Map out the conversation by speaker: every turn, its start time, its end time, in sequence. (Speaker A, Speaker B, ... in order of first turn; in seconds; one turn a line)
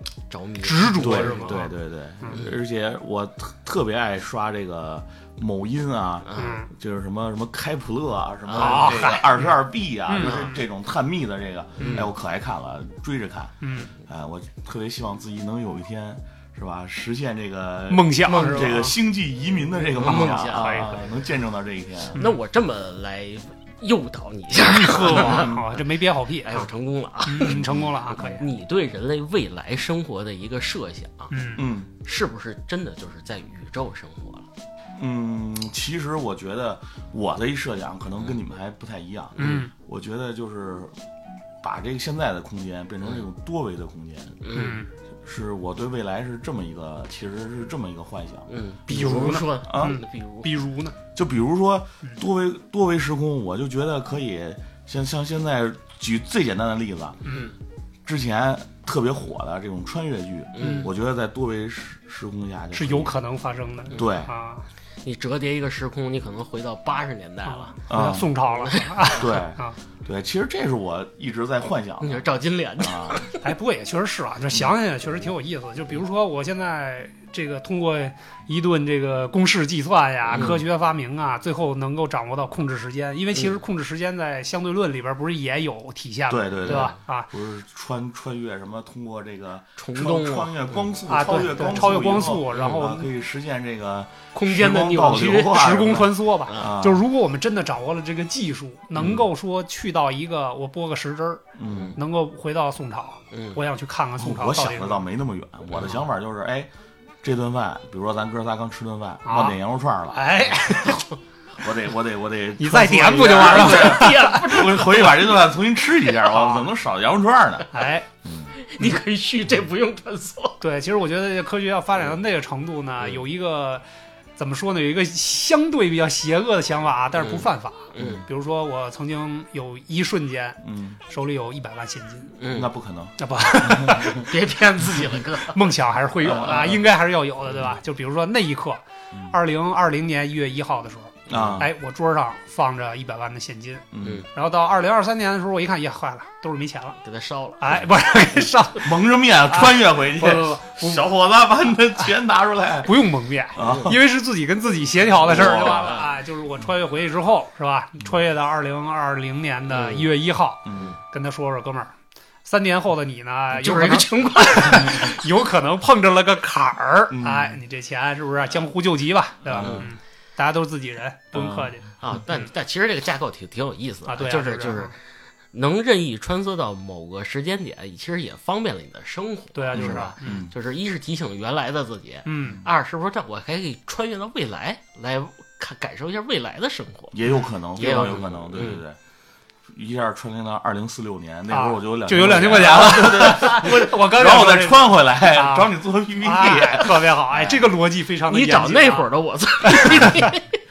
Speaker A: 0.3-1.7
Speaker B: 0.6-2.4
Speaker C: 1.0-22.2
Speaker A: 6.2-6.7
Speaker B: 6.3-6.7
Speaker A: 8.5-9.1
Speaker B: 8.5-9.5
Speaker B: 10.1-10.5
Speaker A: 10.2-10.6
Speaker A: 11.8-12.1
Speaker B: 11.8-12.1
Speaker B: 13.6-13.9
Speaker B: 17.9-18.9
Speaker A: 18.2-18.7
Speaker A: 19.8-21.0
Speaker B: 19.9-21.0
Speaker A: 22.1-25.8
Speaker B: 24.6-26.7
Speaker C: 25.1-25.6
Speaker A: 26.4-31.4
Speaker B: 27.2-28.4
Speaker C: 27.5-28.4
Speaker B: 31.3-31.7
Speaker C: 31.5-31.9
Speaker A: 32.0-34.5
Speaker C: 34.9-41.0
Speaker A: 39.4-39.7
Speaker B: 39.4-39.7
Speaker C: 41.6-44.4
Speaker A: 44.4-44.8
Speaker B: 44.5-44.9
Speaker C: 45.2-48.5
Speaker A: 48.5-50.5
Speaker B: 48.9-51.0
Speaker C: 49.3-50.0
Speaker C: 51.1-57.2
Speaker A: 57.3-57.5
Speaker C: 58.0-63.1
Speaker A: 60.5-60.9
Speaker B: 60.6-60.9
Speaker B: 62.7-64.7
Speaker A: 63.9-64.2
Speaker C: 63.9-64.3
Speaker A: 65.0-67.8
Speaker B: 67.5-69.8
Speaker C: 67.9-68.3
Speaker A: 68.3-69.4
Speaker C: 69.2-73.2
Speaker A: 72.0-73.4
Speaker B: 73.4-87.3
Speaker A: 80.3-80.6
Speaker C: 86.3-97.0
Speaker A: 86.7-87.0
Speaker A: 89.8-90.8
Speaker B: 91.1-93.1
Speaker A: 92.5-92.8
Speaker A: 94.3-95.7
Speaker B: 95.4-105.0
Speaker A: 96.4-96.7
Speaker C: 101.5-102.0
Speaker A: 101.7-102.0
Speaker A: 103.3-103.6
Speaker C: 104.2-106.7
Speaker A: 105.7-106.0
Speaker C: 107.2-110.6
Speaker B: 109.2-109.5
Speaker B: 110.1-111.0
Speaker C: 111.6-117.7
Speaker B: 112.6-114.7
Speaker A: 113.3-115.3
Speaker B: 116.2-116.7
Speaker B: 117.7-118.1
Speaker C: 118.2-118.5
Speaker A: 118.5-120.6
Speaker B: 120.6-123.8
Speaker B: 124.4-132.3
Speaker A: 127.2-128.2
Speaker C: 130.6-131.0
Speaker A: 132.4-132.7
Speaker C: 132.5-134.2
Speaker B: 133.2-134.3
Speaker A: 133.9-135.7
Speaker B: 135.5-147.0
Speaker C: 136.2-136.8
Speaker C: 139.1-139.4
Speaker A: 141.3-141.6
Speaker C: 141.3-141.7
Speaker C: 143.9-144.2
Speaker A: 144.0-144.3
Speaker A: 147.0-148.5
Speaker B: 147.6-149.0
Speaker C: 148.8-154.0
Speaker B: 149.5-151.1
Speaker B: 152.8-161.9
Speaker A: 153.6-153.9
Speaker C: 155.2-156.0
Speaker A: 155.2-156.1
Speaker A: 159.7-160.1
Speaker C: 160.6-160.9
Speaker B: 162.4-172.4
Speaker A: 163.5-165.2
Speaker C: 167.1-167.6
Speaker C: 169.5-169.8
Speaker A: 169.5-169.9
Speaker C: 171.3-171.7
Speaker A: 171.5-187.2
Speaker B: 174.1-174.9
Speaker B: 179.5-180.5
Speaker C: 179.7-180.5
Speaker B: 182.2-182.6
Speaker C: 187.1-189.0
Speaker A: 187.8-188.8
Speaker C: 189.7-197.4
Speaker B: 191.5-199.1
Speaker A: 192.8-193.9
Speaker A: 197.3-197.7
Speaker A: 198.3-200.5
Speaker B: 199.7-200.3